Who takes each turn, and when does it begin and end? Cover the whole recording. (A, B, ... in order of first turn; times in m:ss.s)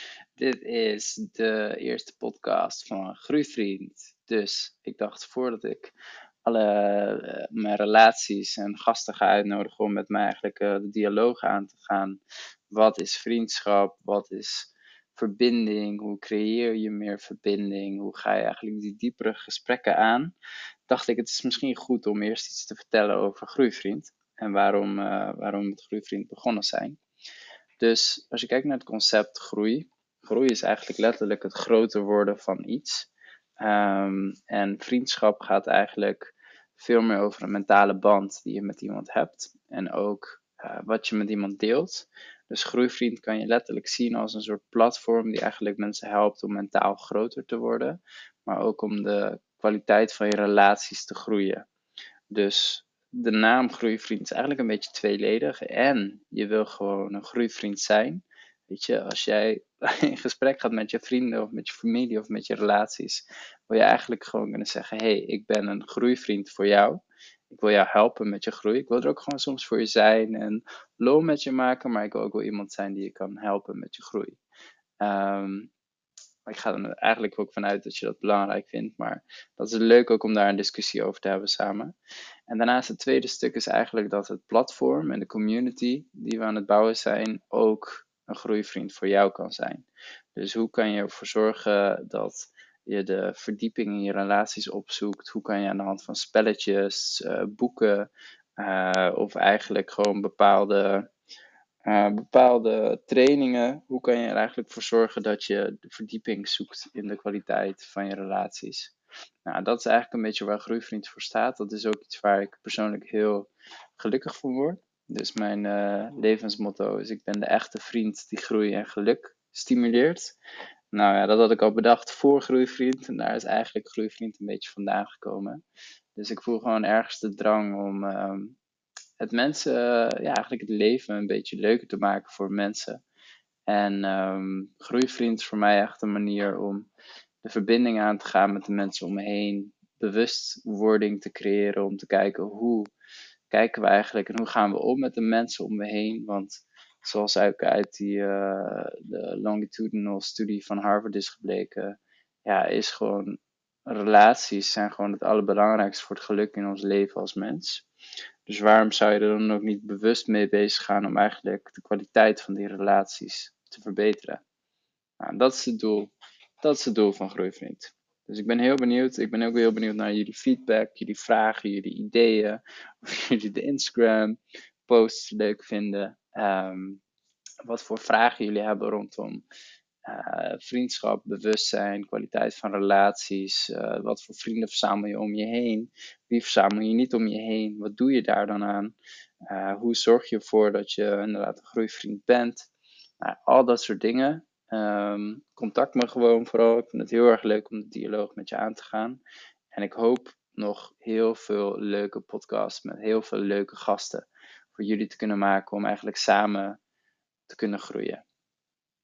0:00.4-0:05.9 A
0:06.4-0:12.2 A
0:12.7-0:20.3 A
0:20.9-0:27.0 A
0:27.8-0:33.1 A
0:33.6-0:51.7 A
0:52.3-1:14.4 A
1:15.0-1:15.7 A
1:16.5-1:21.9 A
1:22.5-1:41.1 A
1:41.8-1:48.9 A
1:49.5-2:00.4 A
2:00.9-2:05.6 A
2:06.2-2:08.6 A
2:09.2-2:13.0 A
2:13.7-2:16.9 A
2:17.4-2:22.9 A
2:23.5-2:37.8 A
2:38.5-2:44.4 A
2:45.2-2:57.0 A
2:57.6-2:59.4 A
3:00.1-3:09.0 A
3:09.5-3:12.7 A
3:13.2-3:19.2 A
3:19.7-3:26.8 A
3:27.5-3:28.2 A